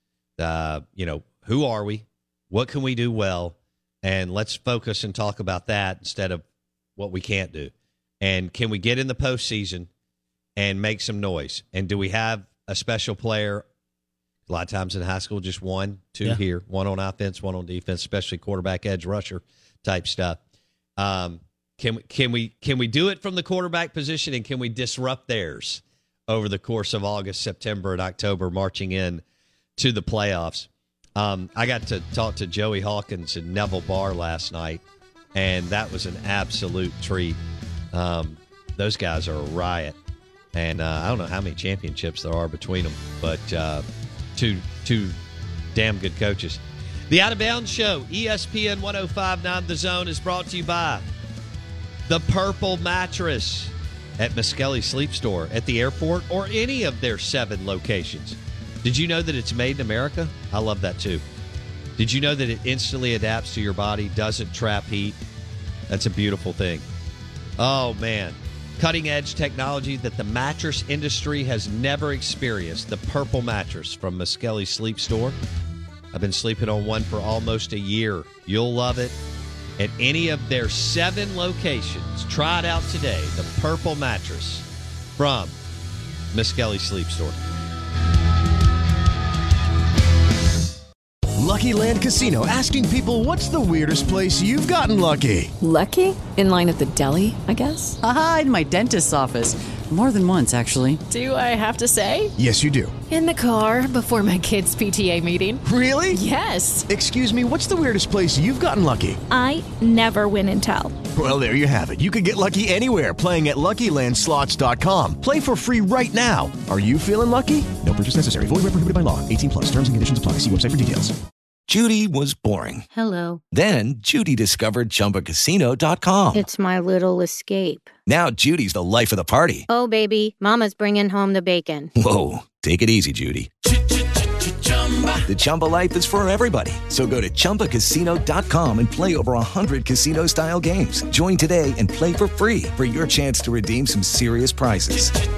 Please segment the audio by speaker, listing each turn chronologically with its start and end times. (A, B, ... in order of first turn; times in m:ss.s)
0:00.4-0:06.4 A
0:07.0-0:09.9 A
0:10.6-0:13.6 A
0:14.5-0:20.4 A
0:21.0-0:29.2 A
0:29.8-0:34.8 A
0:35.3-0:37.4 A
0:37.9-0:40.0 A
0:40.5-0:43.8 A
0:44.3-0:45.2 A
0:45.7-0:51.0 A
0:52.0-1:01.2 A
1:02.0-1:05.2 A
1:05.9-1:06.8 A
1:07.6-1:15.4 A
1:16.1-1:19.2 A
1:19.8-1:25.6 A
1:26.3-1:27.4 A
1:31.4-1:35.5 B
1:35.6-1:38.0 C
1:38.0-1:41.0 D
1:41.1-1:42.3 C
1:42.4-1:42.9 B
1:43.1-1:46.9 C
1:45.6-1:46.2 B
1:46.9-1:49.2 B
1:49.3-1:51.0 C
1:51.1-2:01.1 B
2:01.7-2:02.9 E
2:02.9-2:03.4 F
2:03.5-2:06.5 E
2:06.3-2:07.9 F
2:08.1-2:09.6 E
2:09.7-2:11.9 F
2:12.0-2:13.5 E
2:15.2-2:25.1 E